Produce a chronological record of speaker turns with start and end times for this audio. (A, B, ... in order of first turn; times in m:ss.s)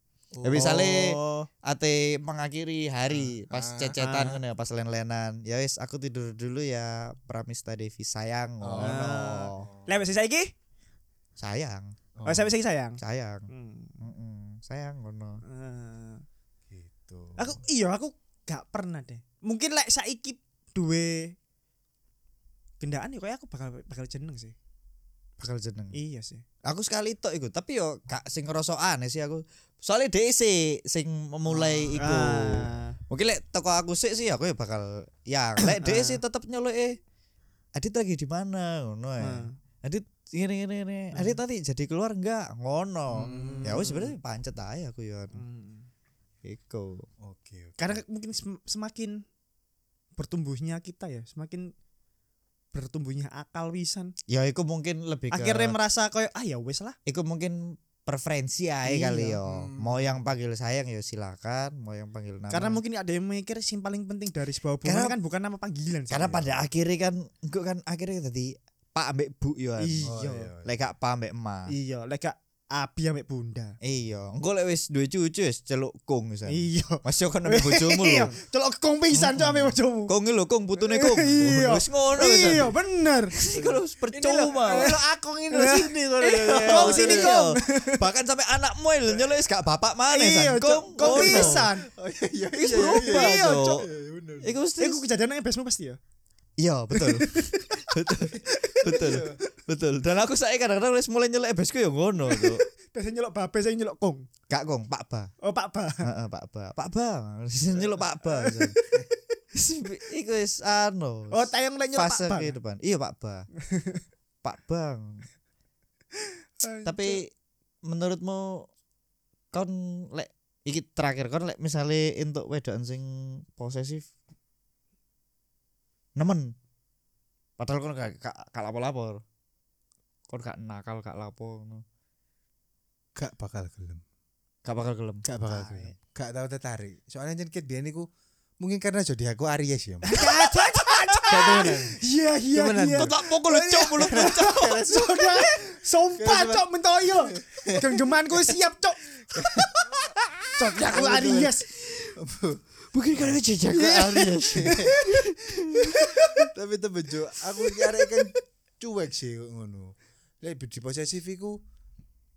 0:00.3-0:00.9 A
0:00.4-0:09.7 B
0:00.5-0:01.5 C
0:03.1-0:04.4 A
0:04.0-0:04.4 C
0:08.6-0:09.9 A
0:08.8-0:10.5 C
0:11.4-0:11.9 B
0:12.2-0:12.5 A
0:12.2-0:13.0 C
0:13.0-0:13.5 B
0:13.5-0:14.0 C
0:14.0-0:15.4 B
0:15.4-0:16.2 C
0:16.7-0:17.6 A
0:17.4-0:21.3 C
0:22.8-0:24.6 C
0:25.4-0:26.0 B
0:25.9-0:26.4 C
0:26.7-0:37.0 B
0:32.0-0:33.0 C
0:35.7-0:36.2 C
0:37.7-0:45.4 B
0:39.2-0:39.6 C
0:43.1-0:43.8 A
0:43.2-0:44.1 C
0:45.3-0:45.9 C
0:46.4-0:47.1 B
0:47.2-0:48.0 A
0:47.8-0:49.2 C
0:50.2-0:51.7 C
0:52.7-0:54.1 C
0:54.3-0:55.8 B
0:55.3-0:57.0 C
0:57.1-1:02.8 B
0:58.8-0:59.4 C
0:59.4-1:00.2 A
1:02.5-1:06.5 C
1:04.8-1:05.1 B
1:06.1-1:11.7 B
1:09.8-1:10.2 C
1:10.1-1:10.7 A
1:11.7-1:13.8 C
1:13.8-1:18.3 B
1:16.5-1:20.1 C
1:19.1-1:22.7 B
1:20.8-1:23.4 C
1:23.4-1:24.9 B
1:23.5-1:27.4 A
1:24.5-1:25.0 C
1:25.5-1:28.0 C
1:26.0-1:31.6 B
1:30.1-1:31.9 C
1:31.0-1:34.6 A
1:32.6-1:33.8 B
1:32.7-1:33.8 C
1:34.4-1:35.0 B
1:34.8-1:36.0 C
1:36.6-1:42.6 B
1:36.9-1:37.9 C
1:38.5-1:39.2 C
1:38.6-1:39.4 A
1:42.3-1:44.3 C
1:44.5-1:45.3 B
1:45.4-1:46.1 C
1:46.0-1:48.8 B
1:48.2-1:49.0 C
1:49.5-1:53.5 B
1:51.3-1:52.6 C
1:53.6-1:54.0 C
1:54.4-1:55.2 B
1:56.8-1:57.1 A
1:56.8-1:57.3 B
1:57.8-1:58.7 B
1:59.5-2:04.1 B
2:06.2-2:06.5 B
2:07.6-2:09.2 B
2:10.3-2:11.8 B
2:13.2-2:14.0 A
2:14.6-2:15.2 B
2:15.2-2:18.1 A
2:15.5-2:15.9 C
2:18.6-2:20.2 A
2:20.1-2:23.1 C
2:21.2-2:26.7 A
2:22.9-2:24.8 B
2:23.9-2:29.7 C
2:27.3-2:28.5 A
2:29.3-2:31.6 A
2:30.6-2:31.7 C
2:32.2-2:32.6 A
2:32.9-2:36.0 B
2:33.2-2:35.1 A
2:34.6-2:36.4 C
2:36.0-2:41.6 A
2:37.6-2:38.1 C